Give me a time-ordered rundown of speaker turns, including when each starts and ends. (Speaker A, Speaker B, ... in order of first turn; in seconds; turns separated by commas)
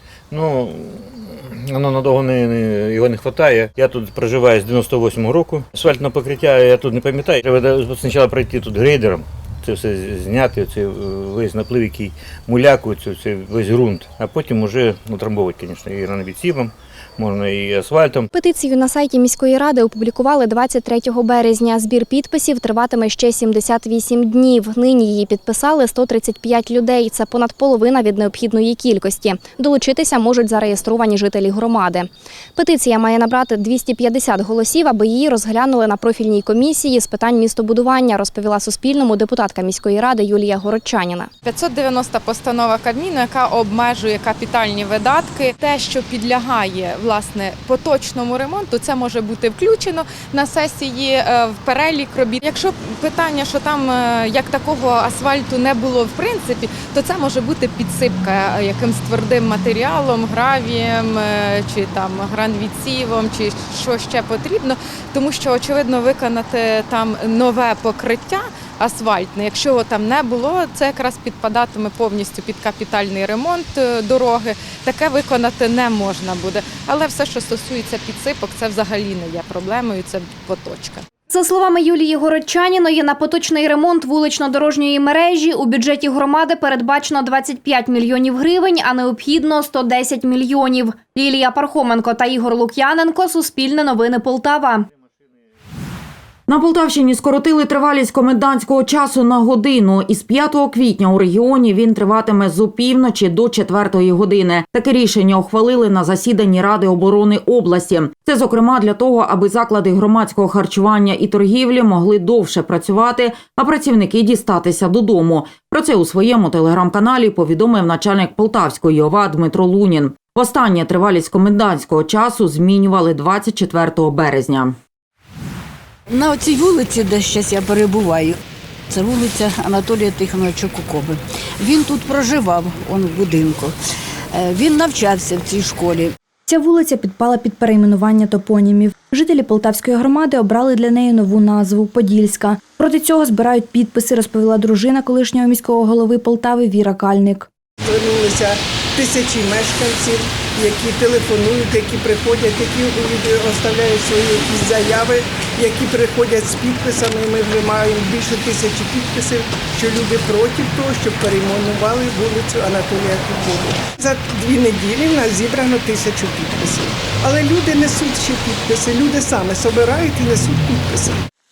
Speaker A: 0.3-18.3, Speaker B: 18.3-41.3, Speaker C: 41.4-81.0, Speaker D: 81.3-94.9, Speaker E: 96.5-124.8, Speaker F: 126.1-128.3, Speaker F: 128.9-133.7, Speaker F: 134.3-136.1, Speaker G: 136.5-147.5, Speaker H: 147.9-171.2